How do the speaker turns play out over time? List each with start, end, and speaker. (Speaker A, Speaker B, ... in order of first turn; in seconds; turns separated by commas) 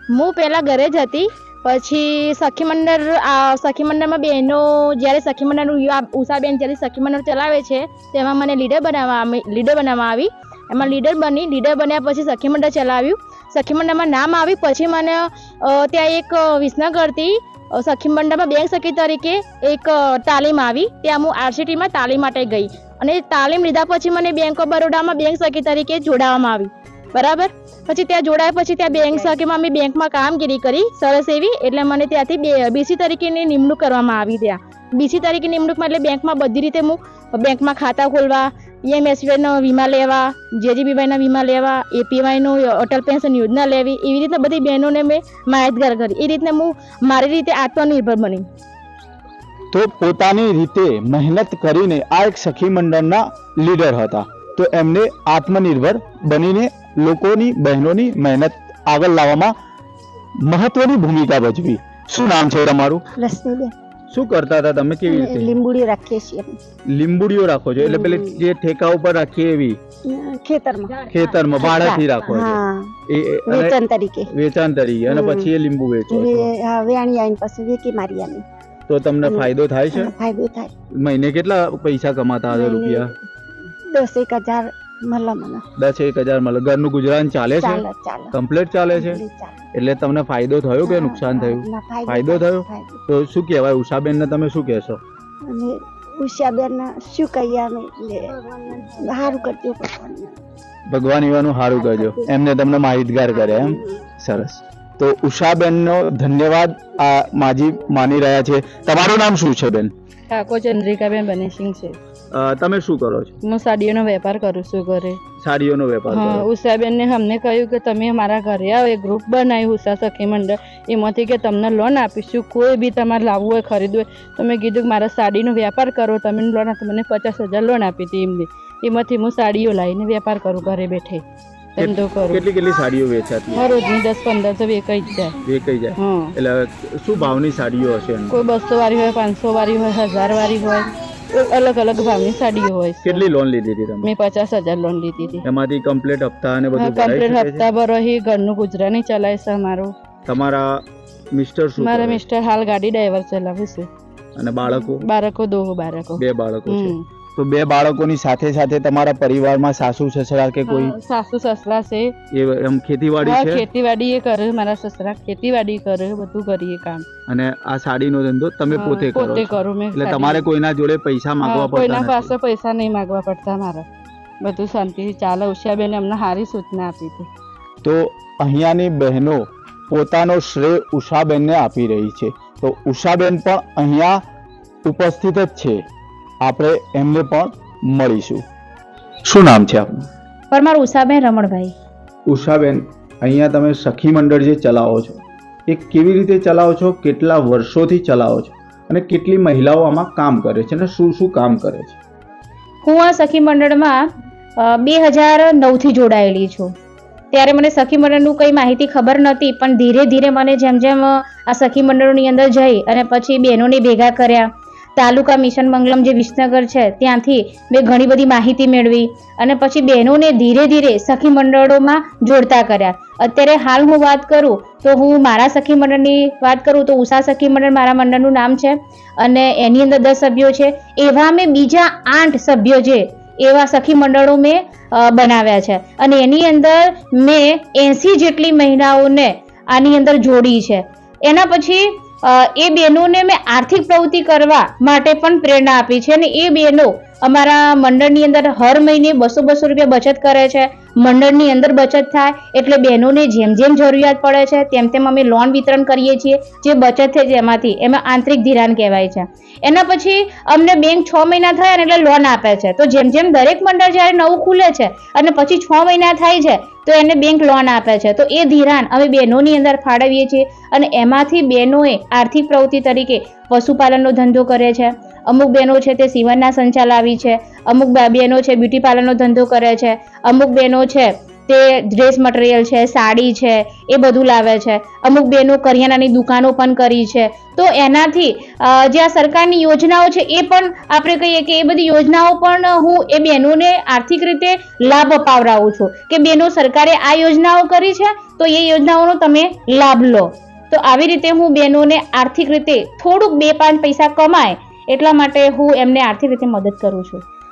Speaker A: 0.1-48.5, Speaker B: 49.7-59.5, Speaker B: 60.5-63.0, Speaker C: 63.2-63.7, Speaker B: 64.1-65.5, Speaker C: 65.0-66.6, Speaker B: 66.9-69.8, Speaker C: 67.8-68.4, Speaker C: 70.1-71.1, Speaker B: 71.1-76.5, Speaker C: 71.6-72.9, Speaker C: 73.5-74.3, Speaker C: 75.0-75.5, Speaker C: 76.1-78.4, Speaker B: 78.9-80.1, Speaker C: 79.2-80.7, Speaker B: 81.0-83.1, Speaker C: 82.5-83.1, Speaker C: 83.9-85.6, Speaker B: 85.8-95.0, Speaker C: 87.6-88.3, Speaker C: 88.9-89.6, Speaker C: 90.8-93.0, Speaker C: 95.5-100.4, Speaker B: 100.9-109.9, Speaker D: 110.3-112.0, Speaker B: 112.3-113.3, Speaker D: 113.4-115.2, Speaker B: 115.4-116.5, Speaker D: 116.1-131.2, Speaker D: 131.8-132.4, Speaker B: 131.8-133.7, Speaker D: 133.5-135.4, Speaker B: 135.4-138.4, Speaker D: 135.9-136.3, Speaker D: 138.3-143.2, Speaker B: 143.0-144.1, Speaker D: 144.0-145.4, Speaker B: 145.4-147.7, Speaker D: 146.7-149.9, Speaker B: 150.2-152.2, Speaker D: 151.8-153.9, Speaker B: 154.3-155.1, Speaker D: 154.6-157.0, Speaker B: 156.2-160.9, Speaker D: 160.7-162.1, Speaker B: 162.3-163.7, Speaker D: 163.2-167.1, Speaker B: 167.3-172.3, Speaker D: 168.7-170.5, Speaker D: 171.4-173.9, Speaker D: 174.4-177.3, Speaker B: 177.8-184.2, Speaker B: 184.8-185.8, Speaker B: 186.4-188.4, Speaker B: 189.3-190.1, Speaker E: 190.5-191.7, Speaker B: 192.3-202.0, Speaker E: 202.8-204.1, Speaker E: 204.6-206.7, Speaker E: 207.3-307.2